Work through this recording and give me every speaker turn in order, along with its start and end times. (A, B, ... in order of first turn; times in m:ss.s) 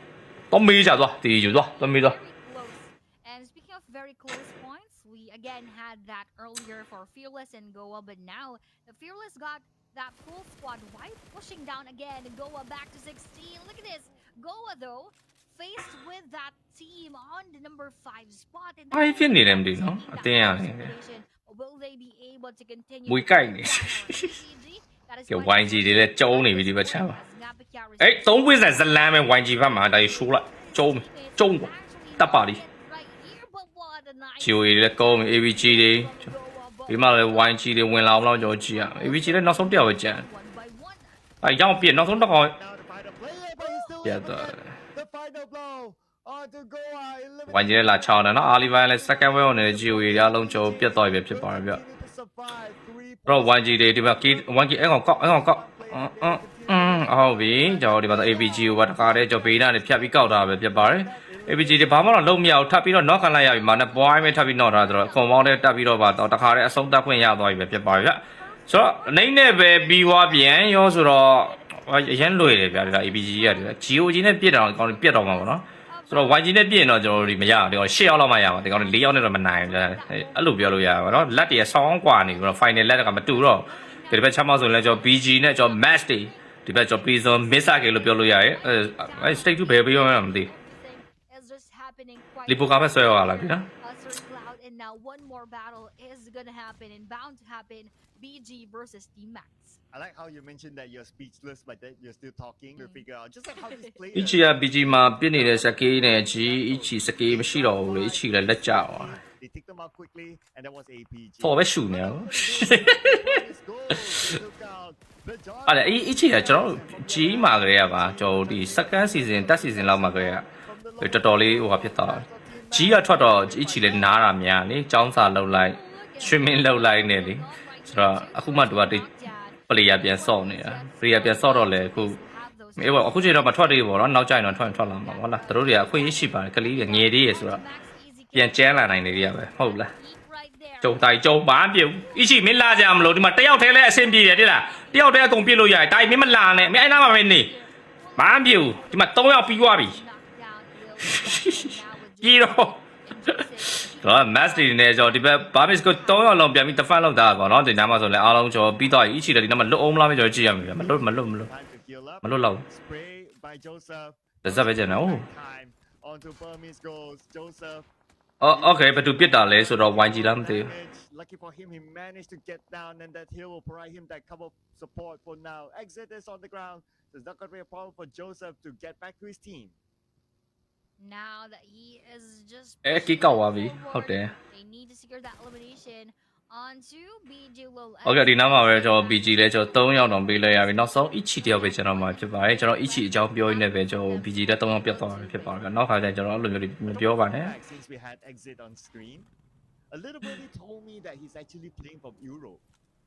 0:00.5-0:02.2 A
0:01.4-0:29.0 B
0:18.9-0:20.9 A
0:23.1-0:24.4 A
0:25.3-0:27.2 A
0:28.0-0:32.6 A
0:29.7-0:41.2 B
0:34.4-0:36.3 A
0:36.9-0:40.2 A
0:41.4-0:42.6 A
0:41.6-1:02.3 C
0:44.0-0:44.7 A
0:47.5-0:51.8 A
0:53.3-1:30.5 A
1:03.2-1:06.9 B
1:07.6-1:17.7 B
1:18.4-1:39.8 B
1:32.5-1:33.6 A
1:39.9-2:04.2 C
1:42.8-1:43.0 B
1:43.6-1:43.9 B
1:44.1-1:49.2 A
1:51.4-1:53.4 A
1:55.7-2:00.5 A
2:01.0-2:09.1 A
2:05.3-2:13.8 B
2:09.7-2:12.2 A
2:12.8-2:17.6 A
2:14.4-2:21.1 B
2:18.3-2:19.9 A
2:20.8-2:27.5 A
2:21.9-2:38.3 B
2:28.2-2:30.0 A
2:31.1-2:33.4 A
2:34.0-2:41.5 A
2:40.6-2:47.9 C
2:42.2-2:42.6 A
2:44.4-2:45.3 A
2:48.4-2:50.7 A
2:48.5-2:59.8 C
3:01.0-3:15.7 B
3:02.8-3:04.3 A
3:08.0-3:17.6 A
3:16.9-3:19.3 C
3:19.9-3:22.6 C